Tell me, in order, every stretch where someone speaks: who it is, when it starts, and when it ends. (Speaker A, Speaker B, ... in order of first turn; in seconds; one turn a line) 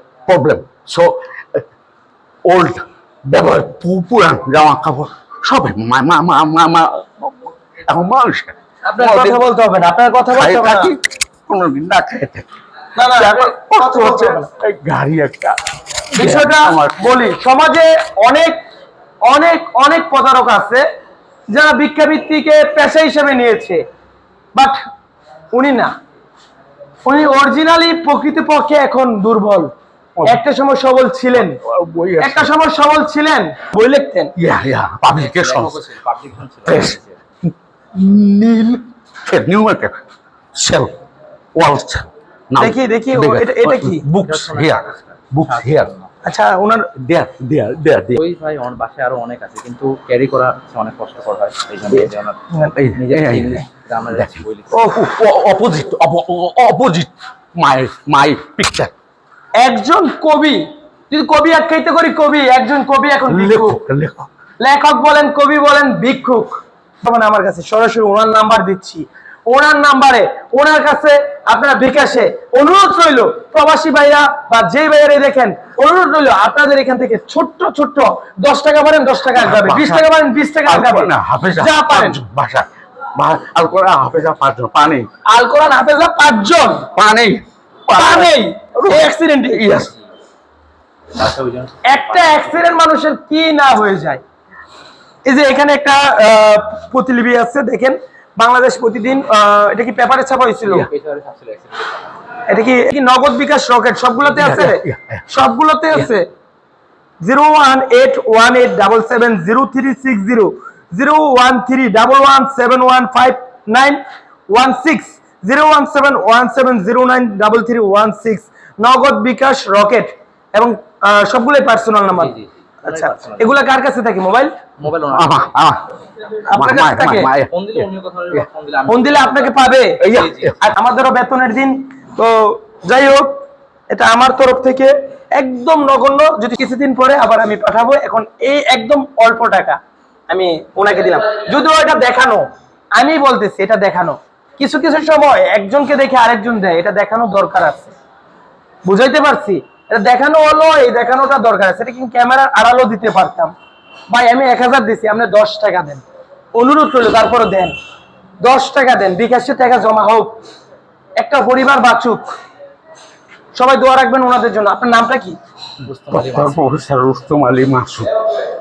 Speaker A: 0.3-1.6
Speaker A: 2.4-9.4
Speaker B: 8.8-10.9
Speaker A: 10.3-12.5
Speaker B: 13.0-14.5
Speaker A: 13.1-15.6
Speaker A: 16.1-17.1
Speaker B: 16.1-18.6
Speaker B: 19.2-20.8
Speaker B: 21.5-23.8
Speaker B: 25.5-25.9
Speaker B: 27.0-29.7
Speaker B: 30.3-31.6
Speaker A: 31.3-32.5
Speaker B: 32.2-34.3
Speaker A: 34.4-35.8
Speaker C: 35.2-37.2
Speaker A: 36.6-37.0
Speaker A: 37.9-40.0
Speaker A: 40.5-40.9
Speaker A: 41.5-45.9
Speaker B: 42.6-44.0
Speaker C: 44.1-46.1
Speaker B: 46.2-46.9
Speaker A: 46.9-48.2
Speaker C: 48.1-52.4
Speaker A: 52.7-58.9
Speaker C: 52.9-54.8
Speaker B: 54.7-55.1
Speaker B: 59.6-63.8
Speaker A: 63.3-64.3
Speaker B: 64.6-82.2
Speaker A: 79.3-80.0
Speaker A: 80.6-85.1
Speaker B: 85.2-86.9
Speaker A: 86.9-89.9
Speaker B: 87.9-89.8
Speaker C: 91.1-92.7
Speaker B: 91.8-94.2
Speaker B: 95.2-100.9
Speaker C: 100.7-102.0
Speaker B: 102.5-106.3
Speaker A: 104.3-105.3
Speaker B: 107.2-124.5
Speaker C: 122.1-123.6
Speaker C: 124.8-125.5
Speaker A: 125.1-125.8
Speaker B: 126.5-127.3
Speaker A: 126.5-127.8
Speaker C: 127.2-130.6
Speaker B: 128.9-133.3
Speaker A: 130.0-130.5
Speaker B: 133.9-147.9
Speaker B: 148.8-153.5
Speaker B: 154.1-156.0
Speaker B: 156.5-157.8
Speaker B: 158.4-160.4
Speaker B: 161.2-162.2
Speaker B: 163.5-165.4
Speaker C: 165.8-166.6
Speaker A: 166.1-168.1